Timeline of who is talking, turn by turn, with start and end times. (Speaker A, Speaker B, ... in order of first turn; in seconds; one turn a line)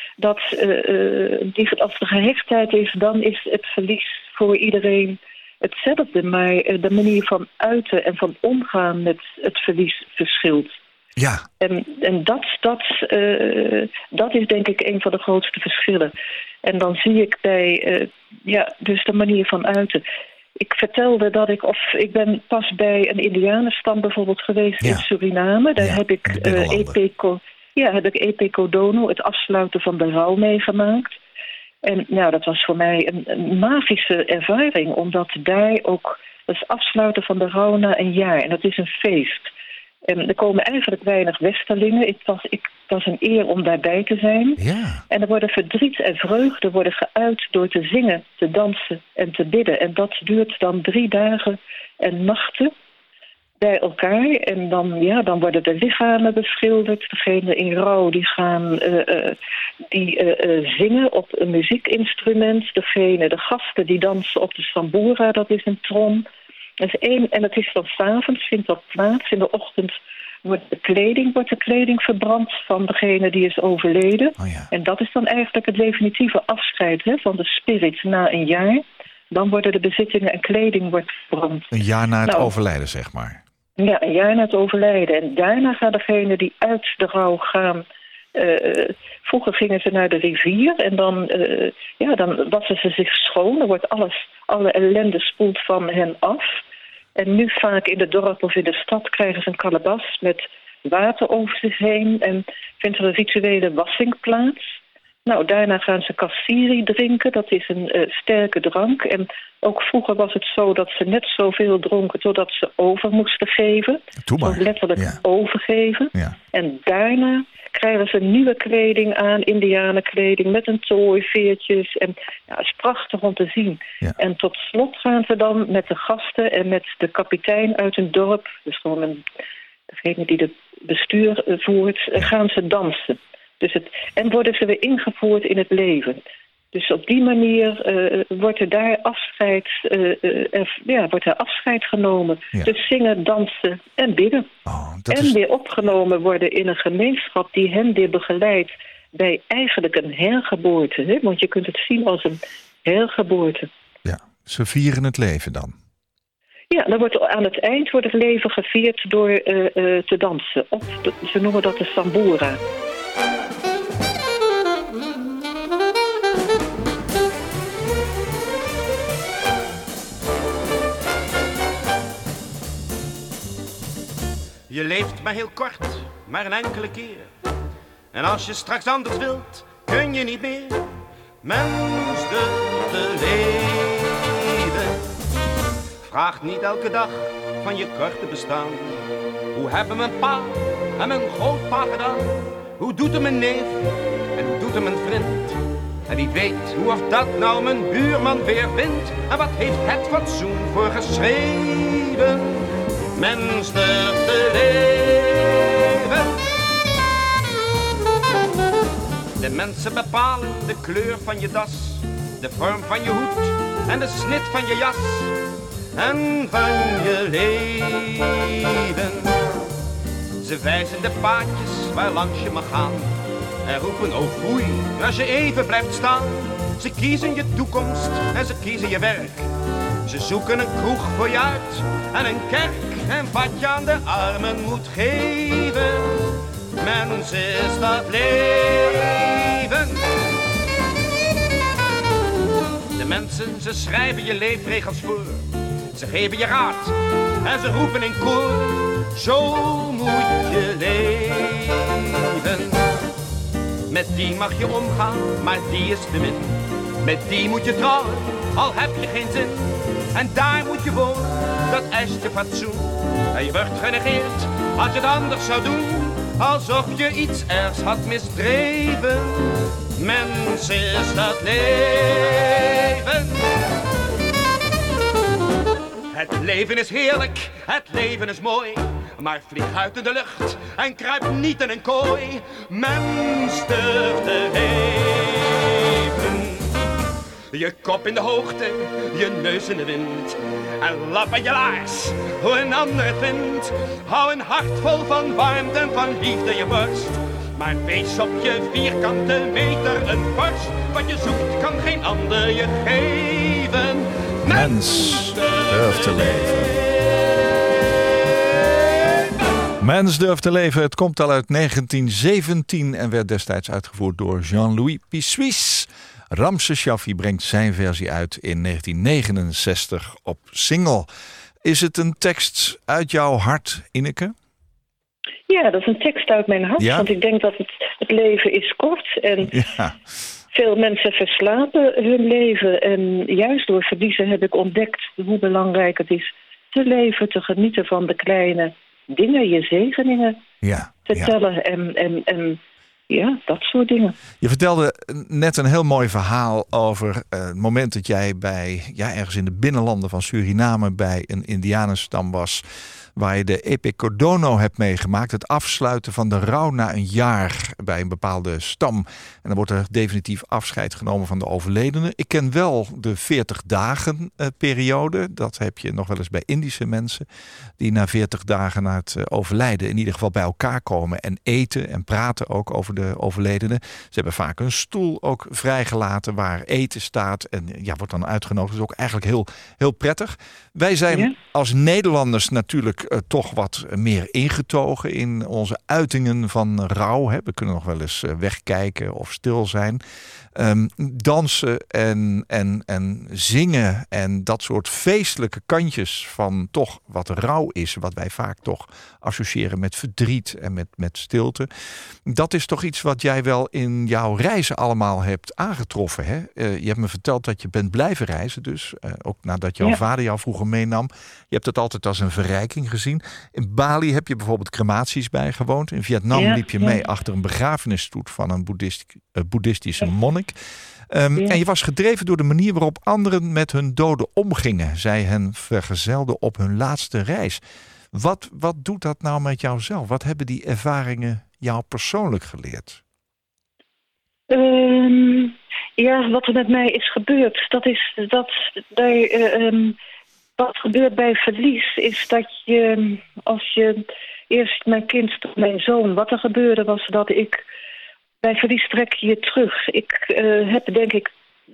Speaker A: 0.2-10.8
Speaker B: 11.2-11.4
Speaker A: 11.6-16.1
Speaker A: 16.6-20.0
Speaker A: 20.6-31.2
Speaker B: 25.8-26.9
Speaker A: 31.8-39.5
Speaker A: 40.0-52.7
Speaker B: 44.6-45.0
Speaker A: 53.6-59.4
Speaker A: 59.9-66.3
Speaker A: 66.8-81.7
Speaker B: 74.4-74.7
Speaker B: 81.7-83.4
Speaker A: 82.2-82.5
Speaker A: 83.8-96.6
Speaker A: 97.2-104.6
Speaker A: 105.3-129.2
Speaker B: 114.3-115.2
Speaker A: 129.9-136.2
Speaker A: 136.7-144.5
Speaker B: 144.7-145.3
Speaker A: 145.1-153.7
Speaker B: 154.1-155.8
Speaker A: 156.7-162.6
Speaker C: 174.7-177.3
Speaker C: 178.1-180.8
Speaker C: 181.4-184.9
Speaker C: 186.1-193.8
Speaker C: 194.4-195.6
Speaker C: 196.1-202.6
Speaker C: 203.2-206.3
Speaker C: 209.4-215.3
Speaker C: 215.9-219.3
Speaker C: 220.4-229.5
Speaker C: 230.1-236.1
Speaker C: 236.8-240.0
Speaker C: 243.0-252.8
Speaker C: 253.9-273.4
Speaker C: 276.1-286.7
Speaker C: 287.5-305.6
Speaker B: 304.5-306.7
Speaker B: 309.8-321.1
Speaker B: 321.6-324.3
Speaker A: 325.5-329.6
Speaker B: 326.8-327.1
Speaker B: 329.5-330.0
Speaker A: 330.5-340.4
Speaker B: 340.6-341.3
Speaker A: 341.1-344.2
Speaker B: 344.4-352.6
Speaker B: 353.1-367.3
Speaker B: 367.8-390.0
Speaker B: 390.6-401.7
Speaker B: 402.2-420.6
Speaker A: 416.4-417.0
Speaker B: 421.1-427.6
Speaker B: 428.1-433.0
Speaker A: 434.5-440.0
Speaker A: 440.6-447.6
Speaker A: 448.4-451.3